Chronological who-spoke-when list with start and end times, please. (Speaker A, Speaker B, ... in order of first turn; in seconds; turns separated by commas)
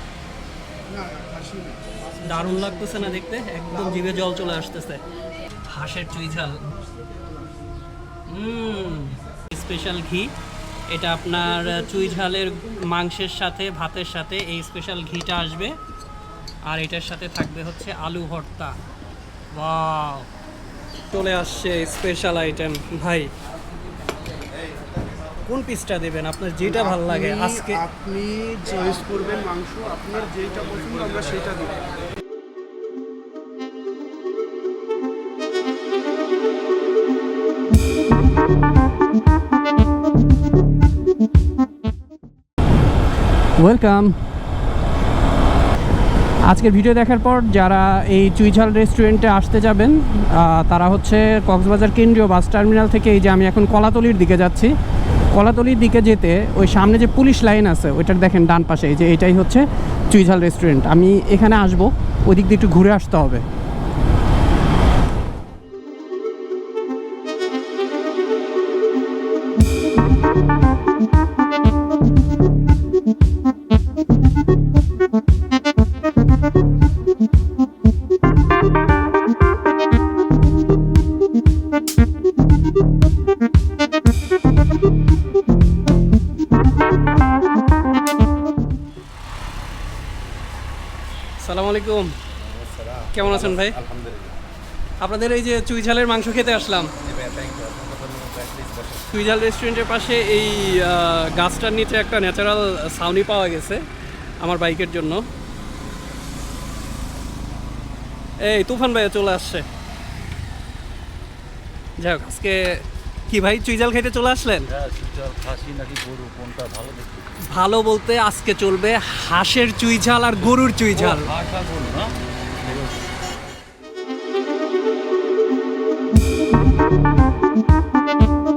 Speaker A: 0.9-4.3, Speaker B: 2.2-5.0, Speaker B: 5.7-6.7, Speaker B: 8.3-10.3, Speaker B: 10.9-15.8, Speaker B: 16.7-18.8, Speaker B: 19.5-20.3, Speaker B: 21.1-23.3, Speaker B: 25.5-27.8, Speaker A: 26.6-31.8, Speaker B: 43.6-44.2, Speaker B: 46.5-54.8, Speaker B: 55.3-63.4, Speaker B: 91.4-92.2, Speaker C: 92.5-94.4, Speaker B: 93.1-93.8, Speaker B: 95.0-96.9, Speaker C: 97.0-99.0, Speaker B: 99.0-103.8, Speaker B: 104.4-105.2, Speaker B: 108.4-109.7, Speaker B: 112.0-114.7, Speaker C: 114.7-117.4, Speaker B: 117.5-121.3, Speaker C: 120.5-123.0